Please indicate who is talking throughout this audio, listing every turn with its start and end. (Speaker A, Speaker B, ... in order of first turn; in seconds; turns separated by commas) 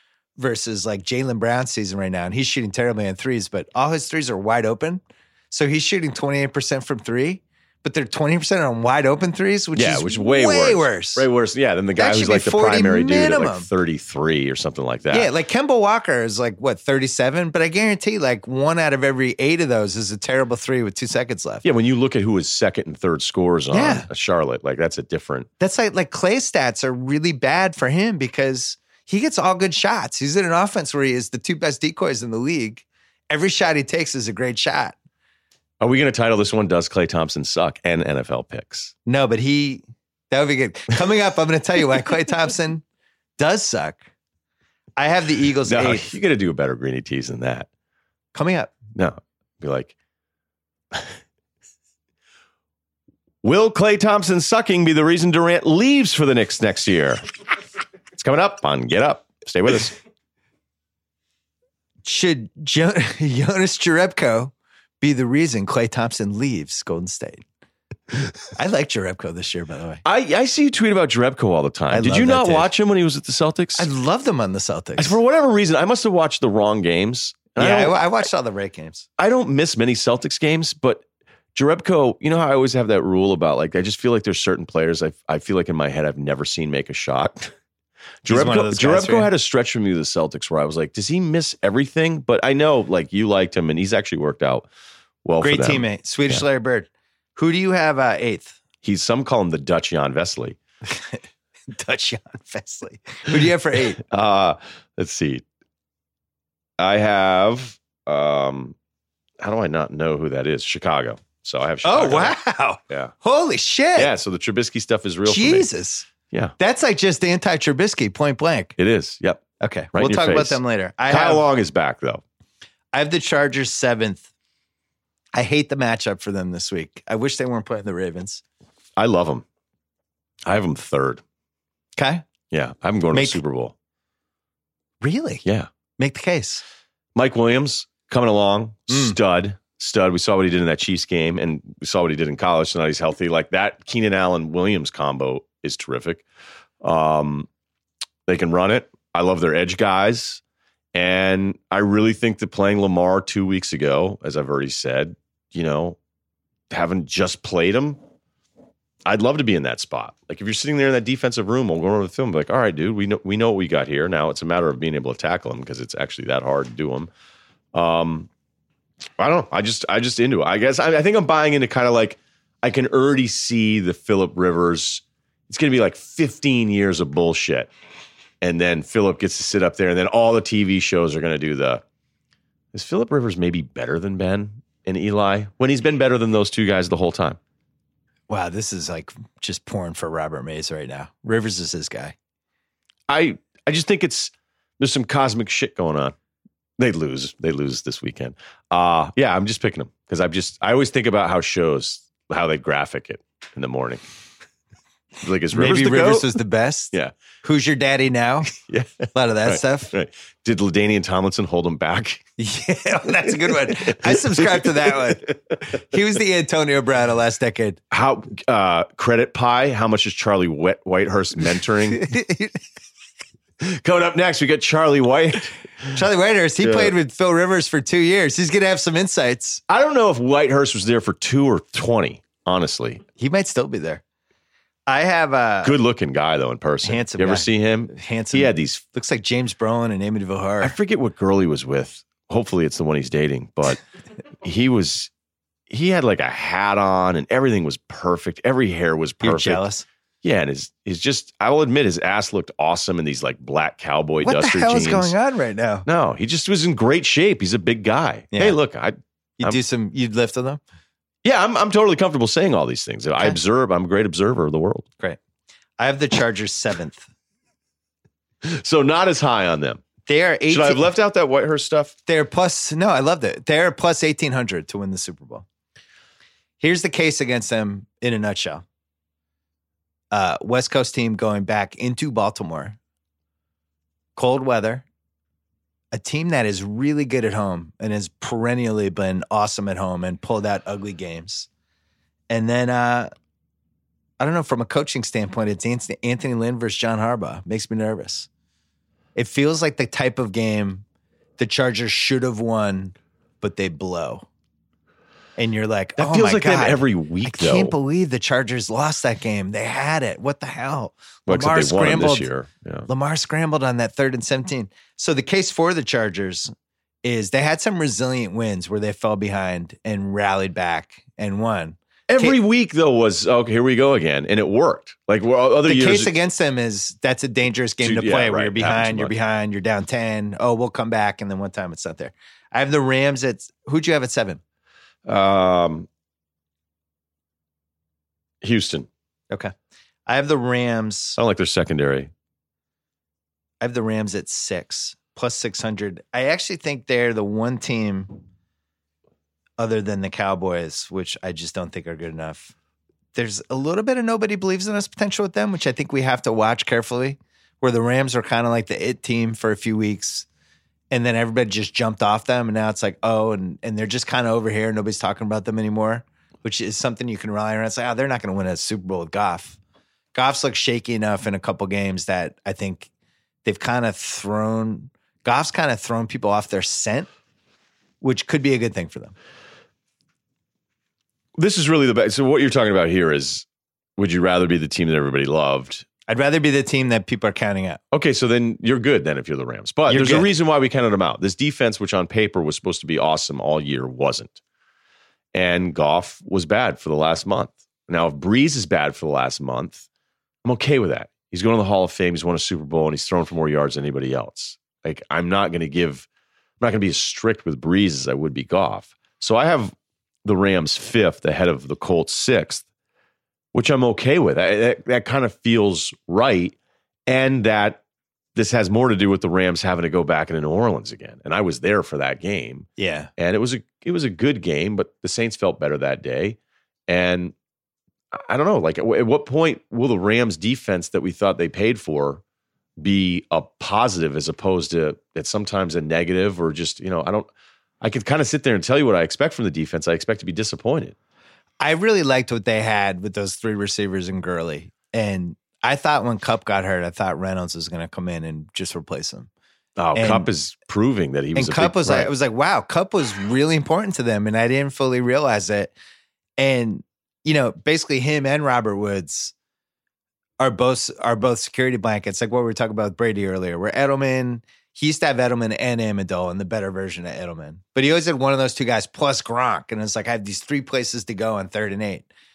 Speaker A: 0.4-11.2, Speaker B: 9.7-15.3, Speaker A: 11.9-13.7, Speaker A: 15.1-21.6, Speaker B: 21.6-25.5, Speaker A: 23.7-24.1, Speaker A: 25.6-35.0, Speaker B: 35.8-38.9, Speaker A: 39.0-42.8, Speaker A: 43.4-44.0, Speaker A: 45.0-46.1, Speaker B: 45.7-47.7, Speaker A: 48.3-48.7, Speaker B: 48.9-49.9, Speaker B: 53.4-57.2, Speaker B: 58.1-60.0, Speaker A: 62.0-67.4, Speaker A: 68.5-70.0, Speaker B: 70.0-73.9, Speaker A: 71.9-72.7, Speaker A: 73.8-75.2, Speaker B: 75.0-78.0, Speaker A: 77.6-79.0, Speaker B: 79.2-87.5, Speaker B: 88.2-94.7, Speaker A: 88.3-89.3, Speaker B: 95.2-96.4, Speaker A: 95.4-98.6, Speaker B: 98.8-100.6, Speaker A: 100.9-104.0, Speaker B: 103.9-105.4, Speaker B: 106.8-108.8, Speaker B: 109.4-112.3, Speaker A: 111.8-114.1, Speaker B: 113.9-115.7, Speaker A: 115.2-118.7, Speaker B: 116.3-116.5, Speaker B: 118.8-122.2, Speaker A: 119.6-121.4, Speaker A: 122.9-124.3, Speaker A: 125.3-128.4, Speaker B: 128.9-129.4, Speaker B: 130.4-131.2, Speaker A: 132.0-132.2, Speaker B: 132.5-133.7, Speaker A: 133.1-133.4, Speaker A: 135.0-135.4, Speaker A: 136.0-136.6, Speaker B: 137.1-146.2, Speaker A: 138.9-139.1, Speaker B: 146.8-147.5, Speaker B: 148.3-150.4, Speaker B: 150.9-156.0, Speaker B: 156.7-158.0, Speaker B: 159.1-167.1, Speaker B: 167.7-168.3, Speaker B: 169.2-177.7, Speaker B: 178.4-181.8, Speaker B: 182.7-187.4, Speaker A: 188.3-192.1, Speaker B: 193.1-196.1, Speaker B: 196.8-204.0, Speaker B: 205.2-206.4, Speaker A: 205.5-208.6, Speaker B: 208.7-212.2, Speaker A: 209.1-209.9, Speaker A: 212.4-217.8, Speaker B: 213.2-215.9, Speaker B: 217.9-222.1, Speaker A: 221.9-222.6, Speaker B: 223.6-226.0, Speaker A: 225.9-229.6, Speaker B: 226.6-226.9, Speaker B: 229.7-233.0, Speaker A: 233.2-234.0, Speaker A: 234.9-235.8, Speaker B: 235.6-238.8, Speaker A: 236.8-240.7, Speaker B: 240.6-243.8, Speaker B: 244.4-245.1, Speaker B: 245.7-249.6, Speaker A: 249.2-249.8, Speaker B: 250.2-255.1, Speaker A: 254.2-255.8, Speaker B: 255.8-259.6, Speaker A: 258.3-258.6, Speaker A: 259.4-260.6, Speaker B: 261.2-264.9, Speaker A: 265.8-267.1, Speaker B: 268.4-269.8, Speaker A: 270.1-270.9, Speaker B: 270.5-271.9, Speaker A: 272.1-275.4, Speaker A: 276.6-278.6, Speaker A: 280.1-282.8, Speaker A: 284.1-284.9, Speaker A: 285.9-291.5, Speaker A: 292.3-293.1, Speaker A: 294.2-298.3, Speaker A: 299.1-300.8, Speaker A: 301.4-304.3, Speaker A: 305.4-312.3, Speaker B: 306.0-307.7, Speaker B: 311.3-312.9, Speaker A: 312.9-316.5, Speaker A: 317.0-322.4, Speaker B: 322.1-326.1, Speaker A: 325.6-334.4, Speaker B: 327.8-329.1, Speaker B: 335.1-335.9, Speaker B: 338.4-338.9, Speaker A: 340.1-341.2, Speaker B: 341.2-342.1, Speaker A: 343.6-348.2, Speaker A: 349.6-352.5, Speaker A: 353.1-360.3, Speaker A: 360.9-369.6, Speaker A: 370.1-372.9, Speaker A: 373.4-377.1, Speaker A: 378.0-379.1, Speaker B: 381.4-383.4, Speaker B: 384.0-385.8, Speaker A: 386.1-387.8, Speaker B: 387.9-394.4, Speaker A: 389.9-390.3, Speaker B: 395.3-399.9, Speaker B: 400.4-406.1, Speaker B: 406.6-412.6, Speaker B: 413.5-416.5, Speaker B: 417.1-417.8, Speaker B: 418.3-427.3, Speaker A: 422.8-423.1, Speaker B: 428.1-432.2, Speaker B: 432.8-437.3, Speaker B: 437.8-440.9, Speaker A: 441.6-449.3, Speaker B: 449.8-452.1, Speaker A: 449.9-450.3, Speaker A: 451.4-455.7, Speaker A: 456.4-459.3, Speaker A: 460.4-472.1